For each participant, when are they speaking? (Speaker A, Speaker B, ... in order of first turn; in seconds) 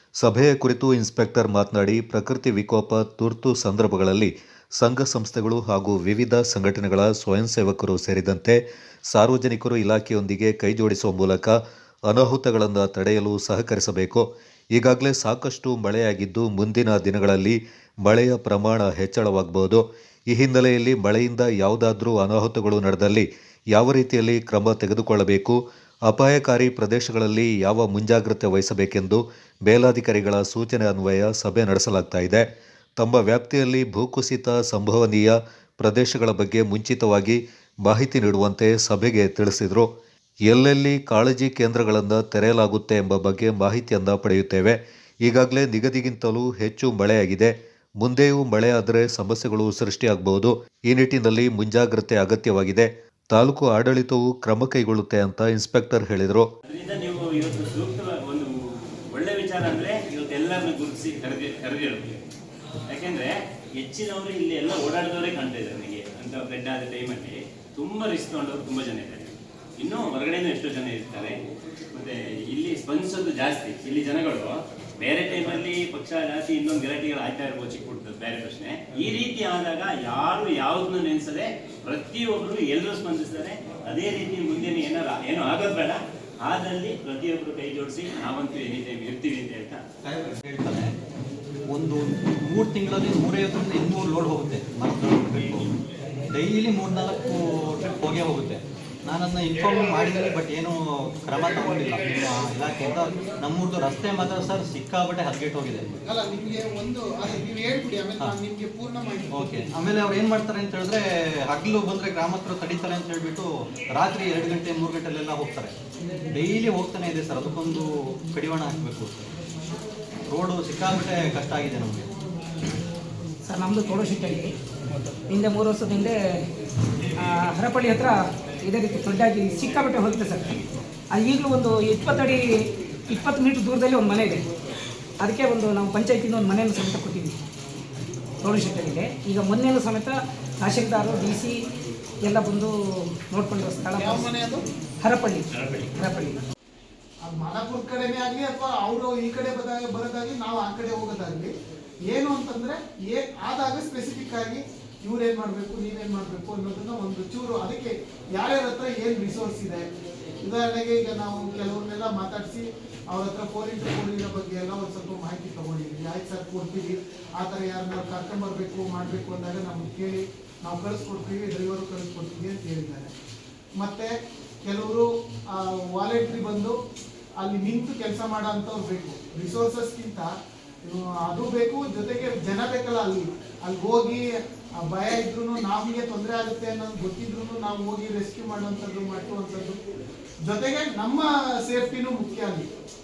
Speaker A: 0.2-39.9, 40.5-56.5
Speaker B: 56.6-58.5, 59.1-62.1, 62.9-71.4, 71.9-89.8, 145.6-145.9
Speaker C: 90.0-90.9, 91.7-95.8, 96.3-106.0, 109.3-115.8, 116.3-119.3, 120.3-122.1
Speaker D: 106.0-109.6, 144.0-144.6, 147.2-151.5, 152.1-159.8, 160.4-173.1, 173.8-174.1, 174.6-176.8, 177.4-180.3, 180.8-184.2, 184.8-189.8, 190.4-192.7
Speaker E: 123.5-124.5, 125.3-126.2, 127.2-134.4, 135.2-137.4, 138.4-141.6, 142.2-144.3, 145.0-146.4